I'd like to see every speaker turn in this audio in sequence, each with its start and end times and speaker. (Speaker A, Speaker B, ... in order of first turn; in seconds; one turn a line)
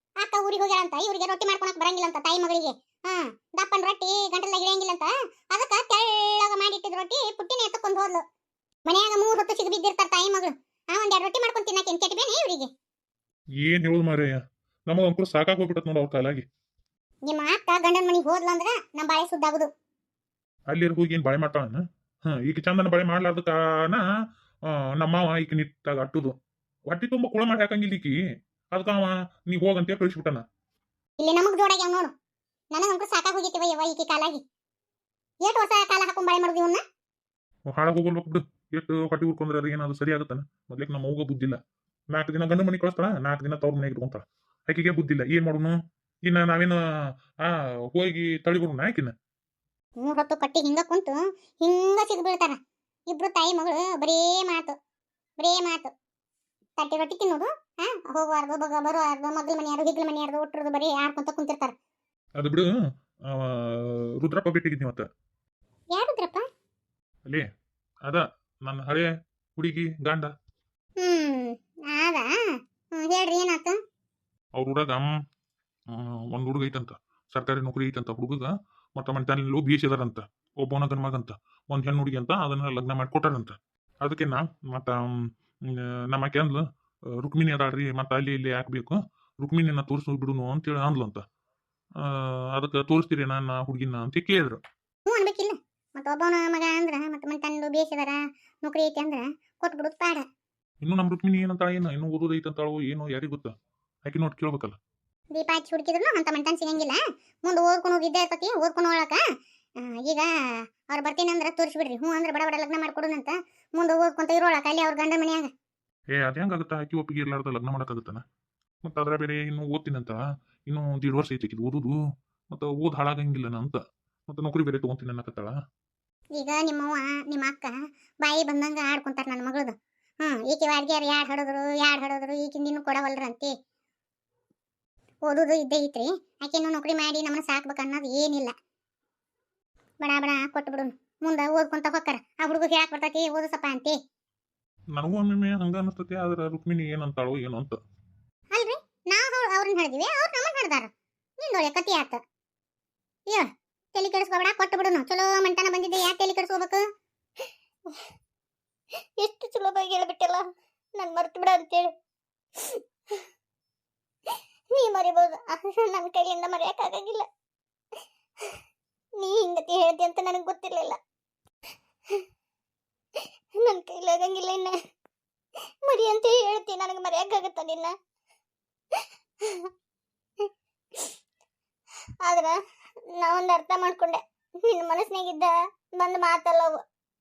Speaker A: 0.2-8.2
Speaker A: 8.9-12.7
Speaker B: 13.6-16.4
Speaker A: 17.3-19.7
Speaker B: 20.7-24.0
Speaker B: 24.7-26.3
Speaker B: 26.9-28.1
Speaker B: 28.7-30.4
Speaker A: 31.2-32.1
Speaker A: 32.7-34.4
Speaker A: 35.4-36.8
Speaker B: 37.7-41.6
Speaker B: 42.1-46.8
Speaker B: 47.4-49.1
Speaker A: 50.0-54.7
Speaker A: 55.4-55.9
Speaker A: 56.8-61.7
Speaker B: 62.4-62.7
Speaker B: 63.3-65.1
Speaker A: 65.9-66.5
Speaker B: 68.0-70.3
Speaker A: 71.0-73.8
Speaker B: 74.5-75.1
Speaker B: 75.9-86.6
Speaker B: 87.2-91.2
Speaker B: 92.0-94.6
Speaker A: 95.0-100.2
Speaker B: 100.8-103.5
Speaker B: 104.0-104.8
Speaker A: 105.3-109.2
Speaker A: 109.8-110.3
Speaker A: 110.9-115.5
Speaker B: 116.1-118.2
Speaker B: 118.8-122.0
Speaker B: 122.5-125.5
Speaker A: 126.3-133.5
Speaker A: 135.2-138.5
Speaker A: 140.0-143.9
Speaker B: 144.9-147.8
Speaker A: 148.5-152.2
Speaker A: 153.3-156.8
Speaker A: 159.2-161.9
Speaker A: 162.6-163.2
Speaker A: 164.7-167.2
Speaker A: 169.2-171.0
Speaker A: 173.6-174.8
Speaker A: 175.8-177.9
Speaker A: 179.4-179.7
Speaker A: 182.2-182.6
Speaker A: 183.1-186.8